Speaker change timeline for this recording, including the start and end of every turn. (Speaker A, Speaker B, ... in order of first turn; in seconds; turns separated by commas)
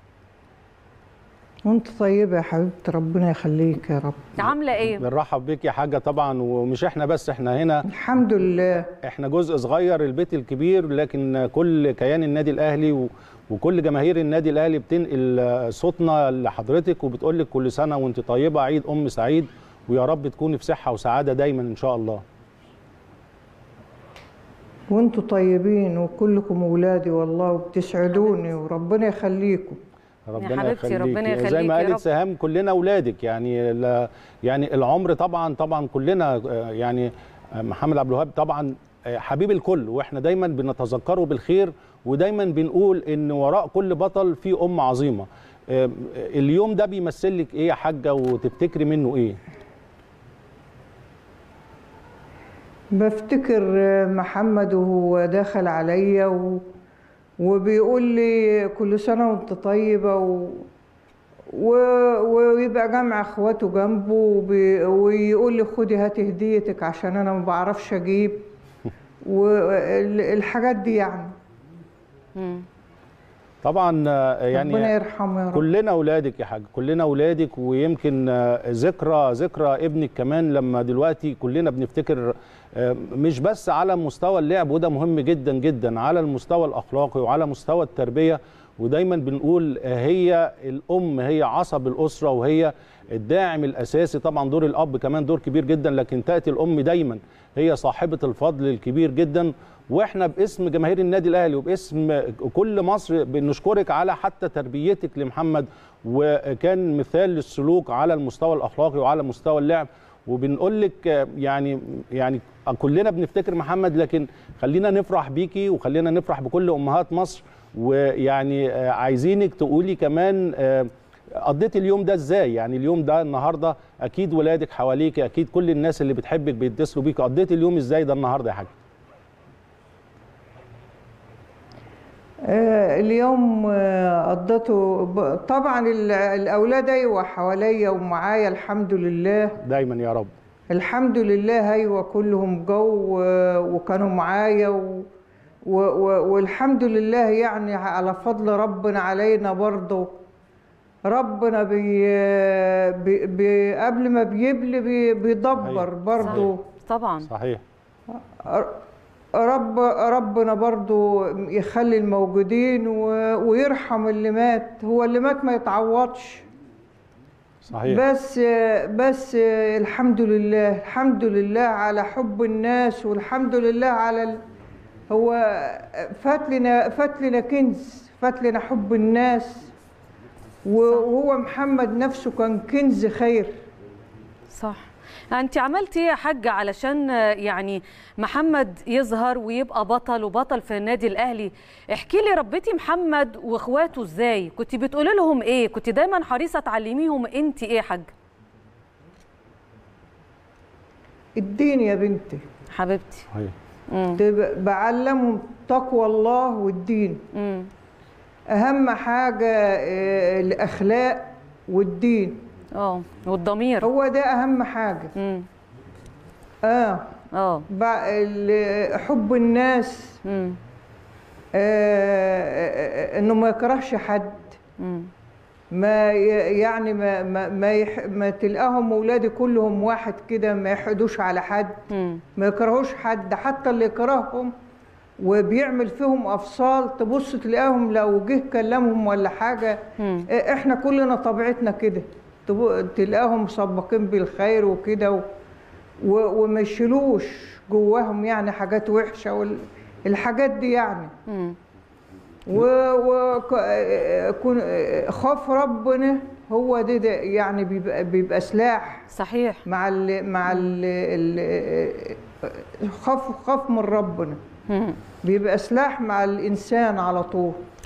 Speaker A: 1.6-4.2, Speaker B: 4.4-5.0, Speaker C: 4.4-7.8, Speaker A: 7.9-8.9, Speaker C: 9.0-22.2, Speaker A: 24.9-29.8, Speaker B: 28.1-28.5, Speaker C: 30.3-49.4, Speaker B: 30.4-32.0, Speaker A: 52.9-56.6, Speaker A: 57.4-60.6, Speaker A: 61.5-68.5, Speaker A: 69.2-71.3, Speaker B: 72.3-72.7, Speaker C: 73.6-74.9, Speaker A: 74.5-75.7, Speaker C: 75.5-128.7, Speaker A: 132.5-139.6, Speaker C: 139.6-140.3, Speaker A: 140.7-145.1, Speaker A: 145.7-150.1, Speaker A: 151.1-156.6, Speaker C: 155.6-156.5, Speaker B: 156.2-157.3, Speaker C: 157.3-157.6, Speaker A: 158.1-158.8, Speaker A: 159.3-166.4, Speaker C: 167.6-168.0, Speaker A: 167.8-174.4, Speaker A: 175.1-179.7, Speaker A: 180.6-183.6, Speaker B: 184.5-198.1, Speaker A: 201.4-202.4, Speaker B: 202.7-203.3, Speaker B: 203.9-204.2, Speaker A: 204.2-207.2, Speaker B: 207.3-207.7, Speaker A: 208.5-212.4, Speaker B: 212.7-213.9, Speaker A: 213.8-215.1, Speaker B: 215.1-215.5, Speaker A: 216.6-217.1, Speaker B: 217.3-217.7, Speaker A: 217.7-220.2, Speaker B: 220.2-220.6, Speaker A: 221.6-224.5, Speaker B: 224.8-225.1, Speaker A: 225.7-231.8, Speaker B: 231.9-232.2, Speaker A: 232.3-234.5, Speaker A: 235.2-245.2, Speaker B: 240.0-240.3, Speaker A: 246.0-251.1, Speaker B: 251.3-251.6, Speaker A: 252.5-259.1, Speaker B: 259.1-259.6, Speaker A: 259.6-264.4, Speaker B: 264.7-265.0, Speaker A: 265.2-267.6